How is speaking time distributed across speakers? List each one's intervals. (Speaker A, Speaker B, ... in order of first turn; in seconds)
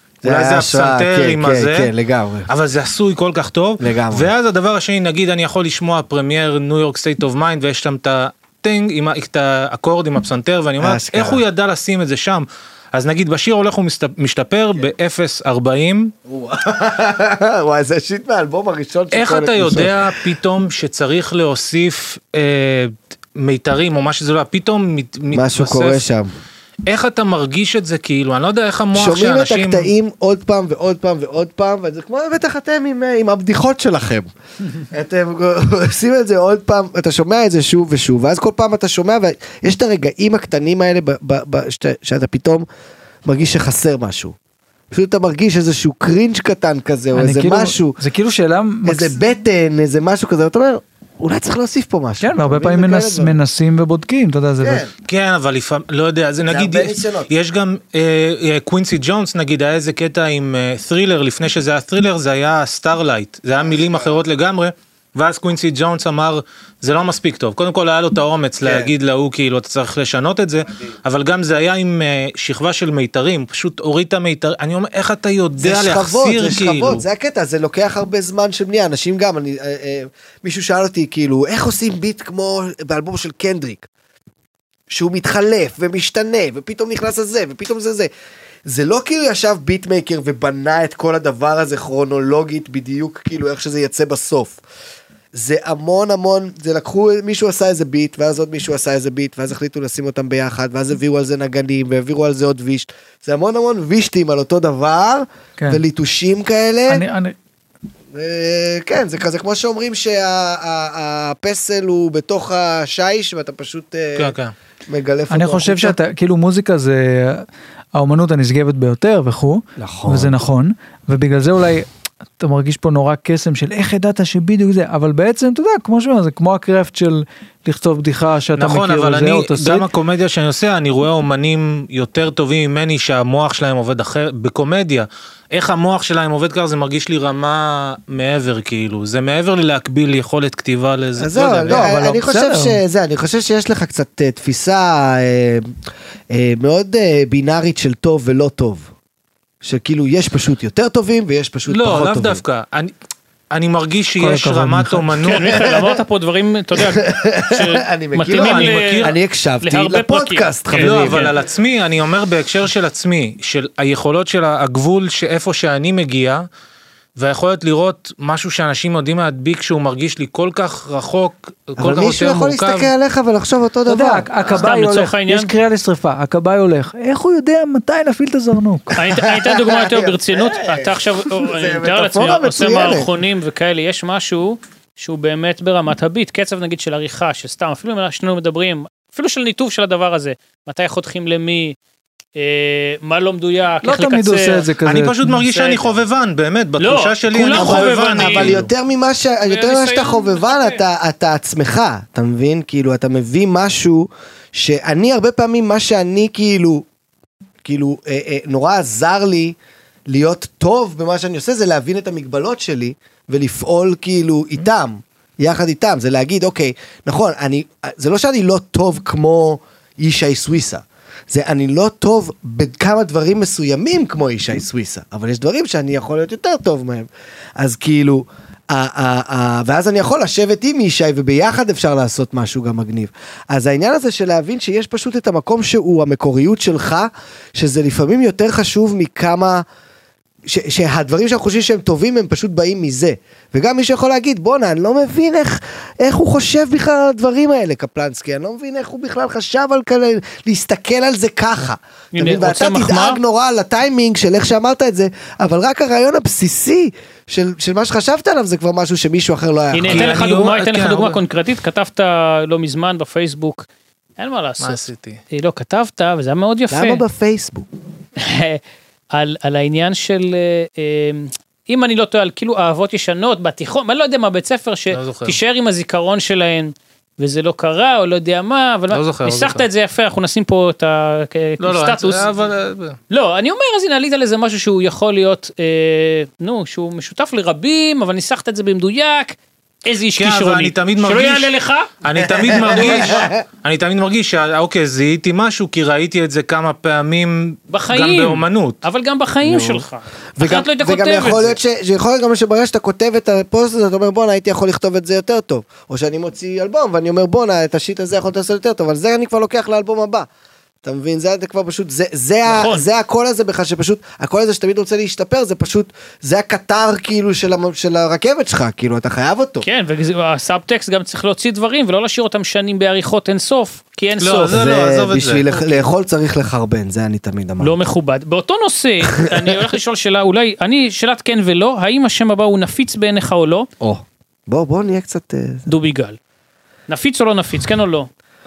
Speaker A: 0.2-2.5, 3.8-4.3, 10.8-11.4, 16.3-20.2, 25.3-26.3, 28.9-42.7, 43.2-44.4, 44.9-48.0, 48.9-53.4, 54.6-54.9, 56.5-57.3, 63.6-64.1, 68.6-68.9, 75.6-83.9, 84.9-88.1, 88.7-94.6, 95.3-107.0, 108.1-114.3, 114.9-116.0, 119.8-120.4, 141.2-145.8, 146.3-148.9, 149.6-152.4, 155.5-156.0, 156.8-161.3, 171.8-174.7, 178.9-183.1, 197.5-206.9, 207.6-209.6, 210.1-239.7, 240.5-260.4, 266.7-267.7, 292.2-293.4, 299.4-299.9, 300.4-310.3, 310.8-319.6, 324.5-327.8, 329.2-329.6, 333.8-335.7
Speaker B: 0.2-1.9, 2.5-16.1, 19.1-26.0, 26.9-29.9, 55.1-77.0, 114.2-114.5, 128.6-141.9, 151.7-152.9, 153.5-155.5, 158.3-159.1, 160.7-166.5, 167.2-172.9, 194.8-198.7, 259.9-261.2, 264.6-265.2, 274.9-275.4, 278.9-279.6, 281.6-283.0, 290.2-291.5, 292.0-298.8, 324.2-325.5
Speaker C: 47.1-49.2, 52.2-54.8, 106.9-107.3, 115.3-121.9, 122.4-129.9, 141.7-142.8, 154.2-155.1, 173.9-178.9, 193.8-195.3
Speaker D: 155.2-161.4, 174.4-175.5, 179.0-191.8, 192.4-194.7, 195.3-196.0, 196.8-198.6, 199.5-200.8, 252.1-253.2, 259.7-263.7, 264.2-267.0, 268.2-268.6, 269.1-282.3, 283.1-291.9, 292.7-293.1, 297.7-301.6, 312.4-312.9, 319.6-324.6, 327.6-333.7, 335.7-336.2, 336.9-338.1